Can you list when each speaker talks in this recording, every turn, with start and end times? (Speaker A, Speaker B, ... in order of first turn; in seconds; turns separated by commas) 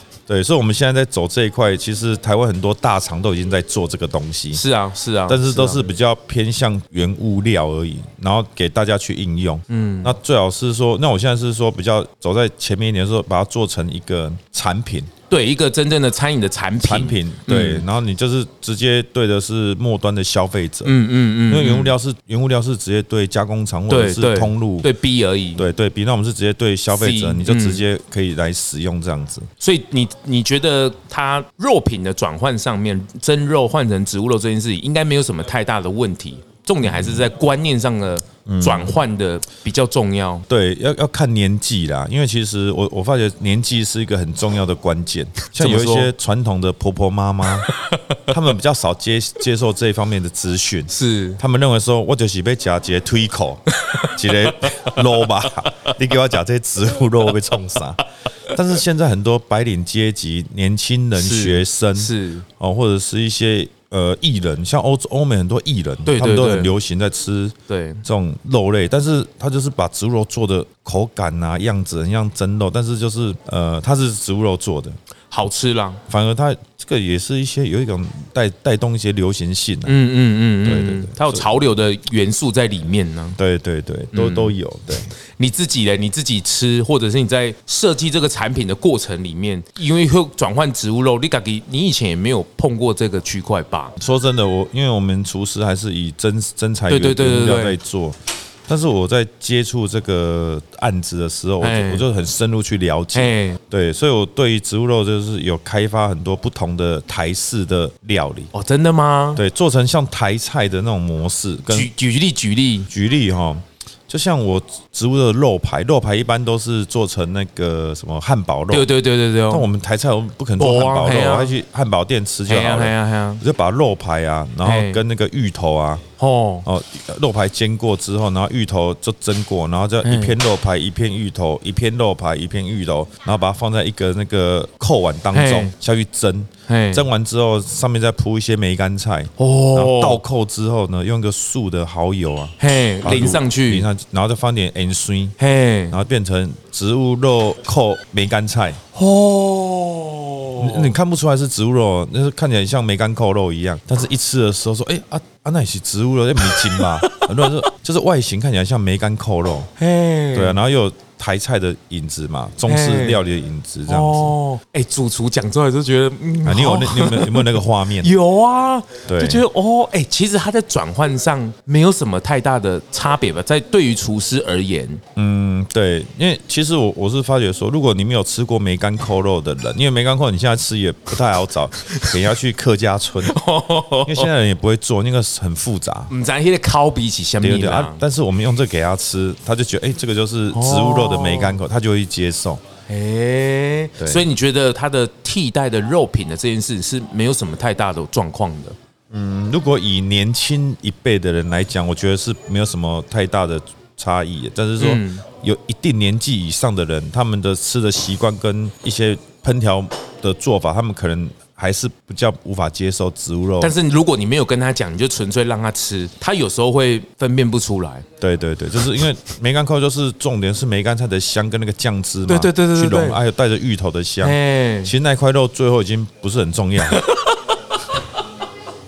Speaker A: 0.3-4.6, Speaker B: 4.5-5.8, Speaker A: 5.3-15.1, Speaker B: 9.7-10.1, Speaker B: 15.3-17.9, Speaker A: 16.8-20.9, Speaker B: 20.9-21.9, Speaker A: 21.5-24.9, Speaker B: 23.9-25.6, Speaker A: 25.6-29.5, Speaker B: 26.9-27.8, Speaker B: 29.6-40.5, Speaker A: 36.8-37.3, Speaker A: 38.5-39.0, Speaker A: 40.5-47.7, Speaker B: 45.5-46.1, Speaker B: 47.7-48.2, Speaker A: 48.3-75.0, Speaker B: 50.9-51.4, Speaker B: 53.8-55.0, Speaker B: 61.1-62.5, Speaker B: 66.1-66.7, Speaker B: 67.7-68.0, Speaker B: 75.3-76.0, Speaker A: 76.1-79.9, Speaker B: 79.9-83.4, Speaker A: 80.6-81.5, Speaker A: 83.4-85.1, Speaker B: 84.1-84.5, Speaker B: 85.4-93.9, Speaker A: 94.0-108.5, Speaker B: 96.9-97.8, Speaker B: 101.6-102.0, Speaker B: 103.1-103.6, Speaker B: 108.5-109.4, Speaker A: 109.4-111.9, Speaker B: 111.7-112.9, Speaker A: 112.9-118.9, Speaker B: 118.7-119.7, Speaker A: 119.5-126.0, Speaker B: 120.6-121.5, Speaker B: 122.5-123.4, Speaker B: 124.6-125.0, Speaker B: 126.2-126.7, Speaker A: 126.7-145.4, Speaker B: 130.0-130.4, Speaker B: 135.3-135.7, Speaker B: 136.7-137.0, Speaker B: 139.4-140.2, Speaker B: 142.6-143.9, Speaker B: 145.4-146.0, Speaker A: 145.9-148.8, Speaker B: 148.9-150.9, Speaker A: 150.6-159.7, Speaker B: 156.4-157.6, Speaker B: 159.8-160.6, Speaker A: 160.3-164.3, Speaker B: 162.7-163.2, Speaker B: 163.9-175.0, Speaker A: 166.4-168.1, Speaker A: 169.1-169.4, Speaker A: 175.2-183.4, Speaker B: 181.9-182.2, Speaker B: 183.2-184.3, Speaker A: 184.1-186.1, Speaker B: 186.1-188.0, Speaker A: 187.4-192.6, Speaker B: 190.5-191.6, Speaker B: 192.9-198.8, Speaker A: 194.0-194.3, Speaker A: 199.1-213.8, Speaker B: 204.8-205.2, Speaker B: 213.6-218.1, Speaker A: 218.2-227.0, Speaker B: 222.3-223.2, Speaker B: 224.2-224.9, Speaker B: 226.8-228.0